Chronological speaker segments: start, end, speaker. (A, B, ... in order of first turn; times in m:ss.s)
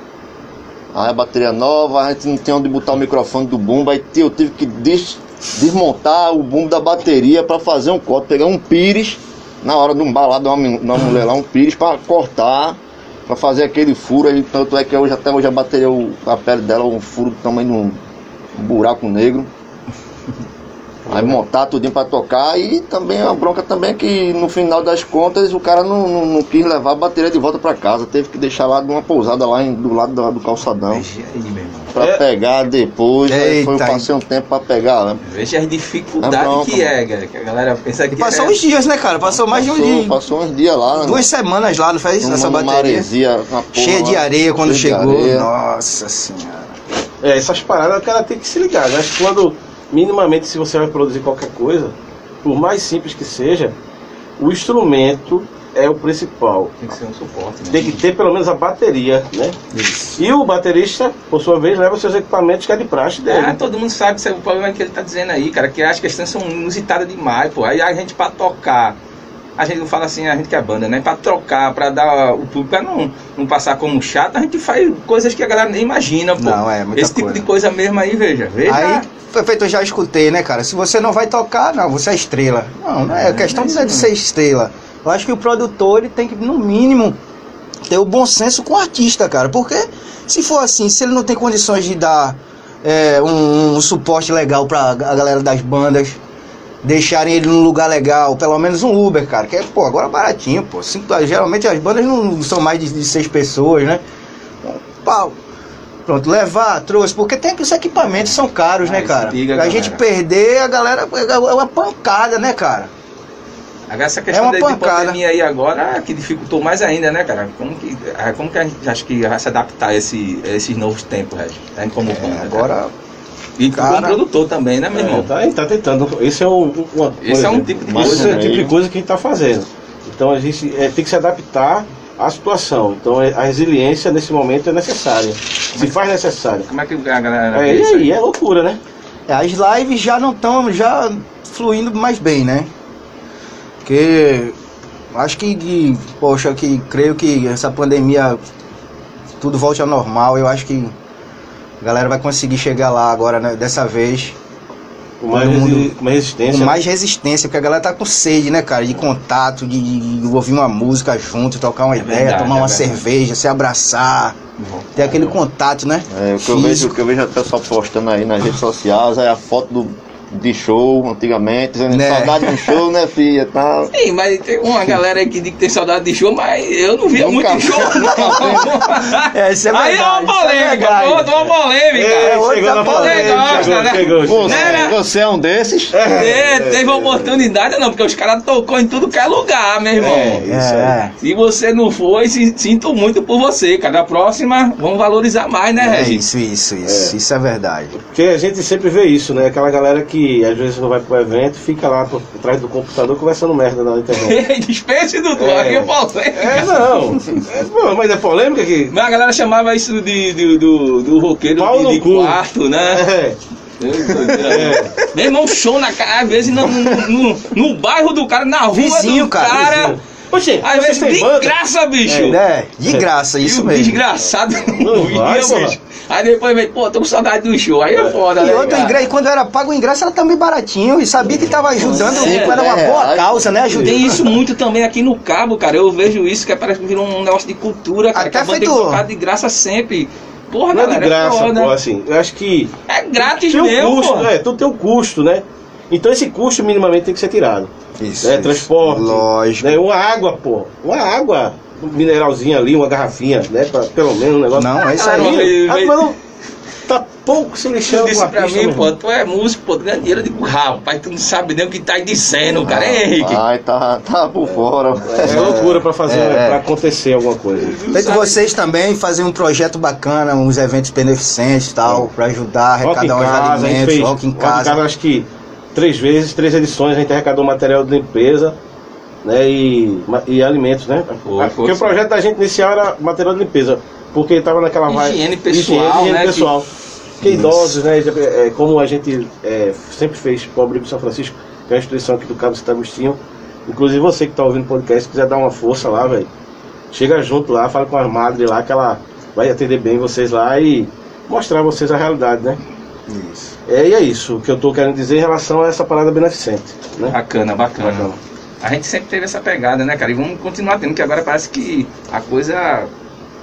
0:00.9-0:18.0 A
0:18.6-0:19.5 A
0:21.1-0:31.0 A
0:30.9-0:31.9 B
0:31.9-0:35.2 A
0:33.3-0:34.1 C
0:35.3-0:38.6 B
0:36.2-0:36.9 A
0:38.1-0:40.2 C
0:39.5-0:41.3 A
0:40.9-0:43.1 C
0:42.2-0:45.5 A
0:43.7-0:46.8 C
0:47.2-0:53.7 D
0:54.4-0:56.7 D
0:56.8-0:58.0 B
0:57.7-0:59.6 D
0:59.7-1:00.2 C
1:00.2-1:03.6 D
1:03.3-1:09.0 B
1:09.6-1:19.1 B
1:16.4-1:17.5 C
1:18.7-1:27.2 C
1:23.1-1:24.1 B
1:27.9-1:36.2 C
1:36.8-1:44.0 C
1:44.6-1:45.4 C
1:46.1-1:52.9 C
1:48.8-1:50.0 B
1:53.9-2:02.8 B
1:54.3-1:55.2 C
2:02.0-2:02.9 C
2:03.6-2:05.3 B
2:03.7-2:04.2 C
2:04.9-2:16.7 D
2:07.2-2:08.5 B
2:07.8-2:08.8 A
2:16.7-2:18.1 B
2:17.5-2:18.8 D
2:19.3-2:22.7 C
2:23.8-2:24.6 C
2:25.1-2:28.4 C
2:29.4-2:30.9 C
2:31.8-2:34.4 C
2:35.2-2:36.8 D
2:35.3-2:35.9 C
2:36.4-2:44.4 C
2:42.0-2:43.0 B
2:44.6-2:45.3 B
2:45.0-2:47.0 C
2:46.1-2:53.9 A
2:51.9-2:52.8 C
2:53.9-3:05.0 B
2:57.1-2:58.7 A
2:58.1-3:01.5 C
3:01.9-3:04.8 D
3:02.2-3:03.9 C
3:04.2-3:06.1 A
3:05.9-3:07.4 D
3:06.1-3:10.4 B
3:10.0-3:11.0 D
3:10.5-3:11.1 C
3:11.2-3:16.2 B
3:15.8-3:18.0 C
3:16.9-3:17.1 D
3:18.0-3:24.4 D
3:24.1-3:27.4 B
3:25.4-3:29.0 D
3:28.9-3:33.1 B
3:31.6-3:33.4 D
3:33.8-3:40.0 B
3:34.1-3:35.6 C
3:34.4-3:34.9 D
3:36.7-3:37.0 C
3:38.7-3:39.8 C
3:39.5-3:42.4 D
3:40.6-3:42.4 B
3:42.2-3:44.0 C
3:43.4-3:49.1 B
3:44.8-3:45.8 D
3:48.4-3:54.4 C
3:51.5-3:52.0 D
3:51.7-3:52.6 B
3:52.0-3:53.6 A
3:53.7-4:01.7 B
3:53.7-3:54.0 D
3:58.1-3:59.0 C
4:00.7-4:07.7 D
4:02.9-4:04.3 B
4:08.0-4:09.8 C
4:08.2-4:16.2 D
4:14.5-4:15.5 C
4:14.8-4:16.1 B
4:16.9-4:18.9 D
4:17.9-4:23.4 B
4:22.5-4:25.6 A
4:25.0-4:27.8 D
4:25.2-4:26.6 C
4:27.6-4:28.4 B
4:27.9-4:34.8 C
4:32.8-4:38.6 D
4:39.2-4:46.7 D
4:41.2-4:41.9 B
4:44.9-4:46.5 B
4:47.2-4:56.3 D
4:47.3-4:47.6 C
4:56.9-5:02.6 D
5:03.1-5:03.5 C
5:03.7-5:07.2 D
5:07.0-5:08.1 B
5:07.8-5:08.2 D
5:08.6-5:12.9 B